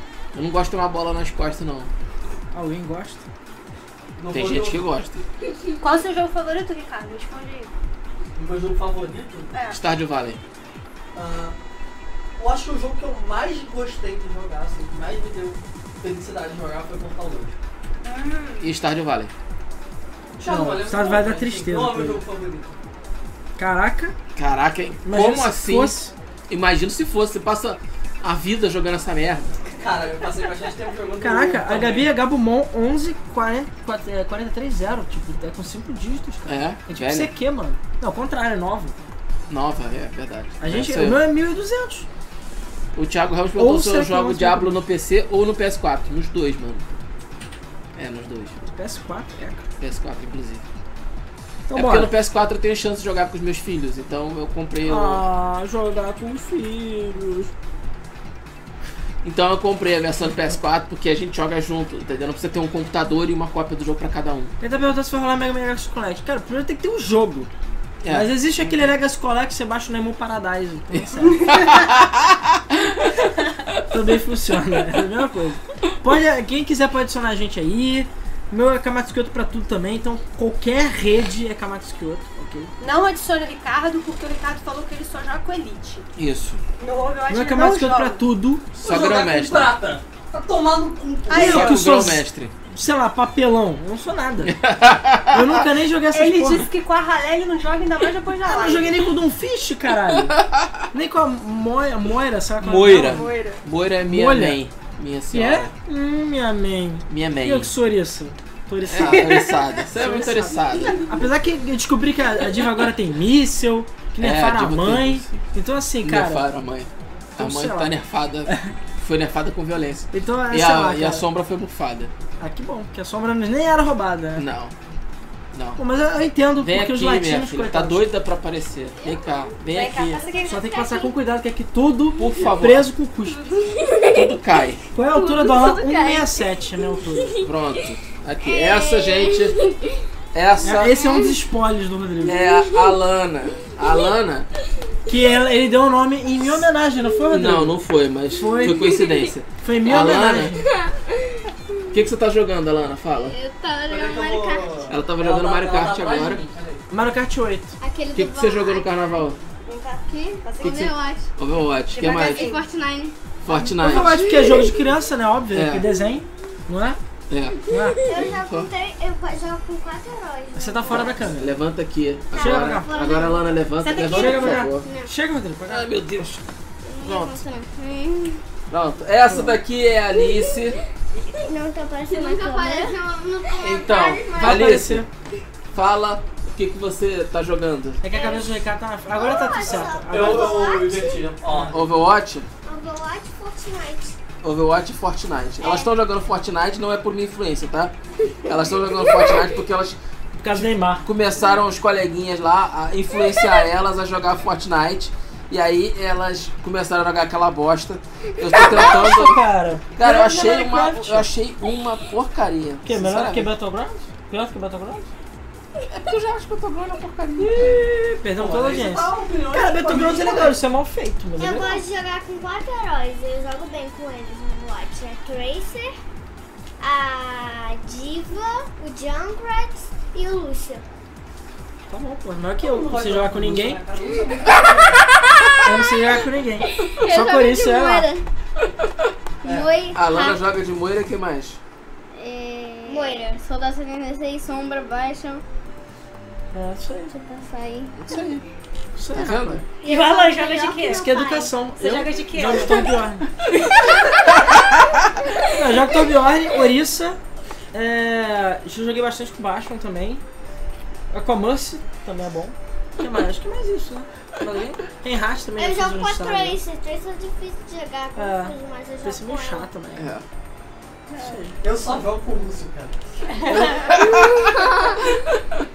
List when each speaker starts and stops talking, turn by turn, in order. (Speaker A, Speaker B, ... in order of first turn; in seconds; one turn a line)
Speaker A: 0.3-1.9
Speaker B: 2.5-3.2
Speaker C: 4.2-4.8
Speaker A: 4.3-5.2
Speaker D: 5.8-7.8
Speaker C: 8.4-9.6
Speaker D: 9.5-9.8
Speaker A: 9.7-10.4
Speaker C: 11.2-11.6
Speaker C: 12.4-17.5
Speaker D: 18.0-18.7
Speaker A: 18.6-19.3
Speaker C: 20.4-22.8
Speaker B: 20.4-22.2
Speaker B: 23.6-24.1
Speaker A: 24.4-25.9
Speaker B: 25.0-26.1
Speaker A: 26.5-29.5
Speaker C: 29.7-32.1
Speaker B: 31.2-39.0
Speaker A: 36.5-37.3
Speaker A: 39.5-41.2
Speaker B: 40.6-42.1
Speaker A: 43.0-46.9
Speaker B: 43.6-44.8
Speaker A: 47.9-48.6
Speaker B: 48.6-49.6
Speaker A: 49.8-50.6
Speaker B: 51.7-52.1
Speaker A: 51.7-55.3
Speaker B: 54.8-57.5
Speaker A: 59.2-64.5
Speaker B: 64.6-67.5
Speaker A: 68.0-68.8
Speaker B: 68.1-71.7
Speaker A: 70.9-73.1
Speaker B: 73.9-82.7
Speaker D: 82.8-86.1
Speaker A: 86.2-86.6
Speaker D: 86.8-88.2
Speaker B: 87.3-88.7
Speaker A: 88.8-89.7
Speaker C: 88.8-91.6
Speaker D: 91.3-91.8
Speaker B: 91.3-94.6
Speaker A: 91.3-92.5
Speaker A: 94.4-95.6
Speaker B: 95.3-96.7
Speaker D: 96.1-99.1
Speaker B: 98.5-100.4
Speaker A: 100.1-100.8
Speaker B: 100.9-103.2
Speaker A: 102.6-105.7
Speaker D: 102.9-103.6
Speaker B: 104.1-104.6
Speaker B: 105.3-116.5
Speaker A: 107.1-107.7
Speaker A: 108.9-111.0
Speaker D: 109.1-109.7
Speaker A: 114.2-115.4
Speaker A: 116.0-122.1
Speaker B: 117.4-117.9
Speaker B: 120.1-121.3
Speaker B: 122.4-124.5
Speaker A: 124.4-124.8
Speaker A: 125.5-125.8
Speaker B: 125.8-128.1
Speaker A: 126.6-130.2
Speaker E: 129.0-129.5
Speaker D: 129.7-130.8
Speaker F: 130.3-131.1
Speaker B: 130.5-133.7
Speaker A: 132.2-132.9
Speaker E: 133.7-134.2
Speaker A: 134.0-134.8
Speaker B: 134.9-137.4
Speaker E: 135.1-136.4
Speaker E: 137.2-137.5
Speaker A: 137.4-139.6
Speaker E: 138.4-139.9
Speaker A: 140.3-141.0
Speaker B: 140.6-142.4
Speaker E: 140.9-141.4
Speaker A: 142.2-144.5
Speaker E: 142.4-143.0
Speaker B: 145.1-147.8
Speaker A: 147.3-150.6
Speaker B: 148.3-149.0
Speaker E: 148.8-149.3
Speaker B: 149.6-150.7
Speaker E: 150.8-151.1
Speaker A: 151.9-153.4
Speaker E: 153.2-154.8
Speaker C: 153.9-156.8
Speaker A: 154.9-156.4
Speaker B: 156.9-157.8
Speaker E: 157.8-159.1
Speaker A: 158.1-159.4
Speaker D: 159.7-160.9
Speaker E: 160.1-161.3
Speaker A: 160.6-162.5
Speaker D: 161.9-162.6
Speaker E: 162.1-163.2
Speaker A: 163.4-164.3
Speaker B: 163.5-167.0
Speaker E: 164.1-164.8
Speaker A: 165.5-165.9
Speaker A: 167.3-167.6
Speaker B: 167.7-168.0
Speaker E: 167.7-168.2
Speaker F: 168.1-171.2
Speaker A: 168.2-168.7
Speaker B: 170.6-171.5
Speaker A: 170.9-174.9
Speaker F: 172.3-173.5
Speaker B: 172.4-172.9
Speaker D: 173.8-174.7
Speaker B: 174.0-175.9
Speaker A: 175.7-176.4
Speaker E: 176.8-178.4
Speaker A: 177.0-177.4
Speaker A: 178.7-180.8
Speaker B: 179.3-179.6
Speaker F: 181.4-184.5
Speaker E: 182.1-184.6
Speaker A: 183.6-185.1
Speaker B: 184.4-185.1
Speaker A: 185.7-188.0
Speaker B: 188.0-190.8
Speaker F: 188.1-188.5
Speaker F: 189.1-191.3
Speaker C: 189.7-191.8
Speaker B: 191.5-191.7
Speaker A: 191.7-192.5
Speaker F: 192.6-194.2
Speaker A: 194.4-200.0
Speaker F: 195.6-195.9
Speaker B: 200.4-201.1
Speaker A: 200.5-209.4
Speaker B: 208.5-211.3
Speaker A: 209.9-213.5
Speaker B: 212.8-215.1
Speaker A: 215.8-217.8
Speaker B: 217.4-221.8
Speaker C: 218.3-220.6
Speaker F: 221.4-225.9
Speaker F: 226.8-230.8
Speaker B: 231.9-233.8
Speaker C: 232.6-235.0
Speaker B: 235.6-238.1
Speaker E: 236.8-238.2
Speaker C: 239.4-239.7
Speaker E: 239.4-240.4
Speaker A: 239.9-241.6
Speaker E: 242.1-245.4
Speaker F: 242.9-243.4
Speaker B: 246.5-247.5
Speaker E: 247.4-248.0
Speaker A: 248.0-248.4
Speaker B: 249.0-249.6
Speaker A: 249.1-249.6
Speaker F: 249.8-251.5
Speaker D: 249.8-251.1
Speaker B: 250.9-253.3
Speaker D: 251.8-252.9
Speaker F: 252.5-252.9
Speaker B: 255.5-257.2
Speaker B: 257.7-260.2
Speaker B: 261.1-266.6
Speaker F: 265.6-269.7
Speaker B: 268.1-270.1
Speaker A: 270.0-270.2
Speaker B: 271.1-271.6
Speaker C: 271.6-273.0
Speaker D: 273.3-274.1
Speaker A: 273.9-274.6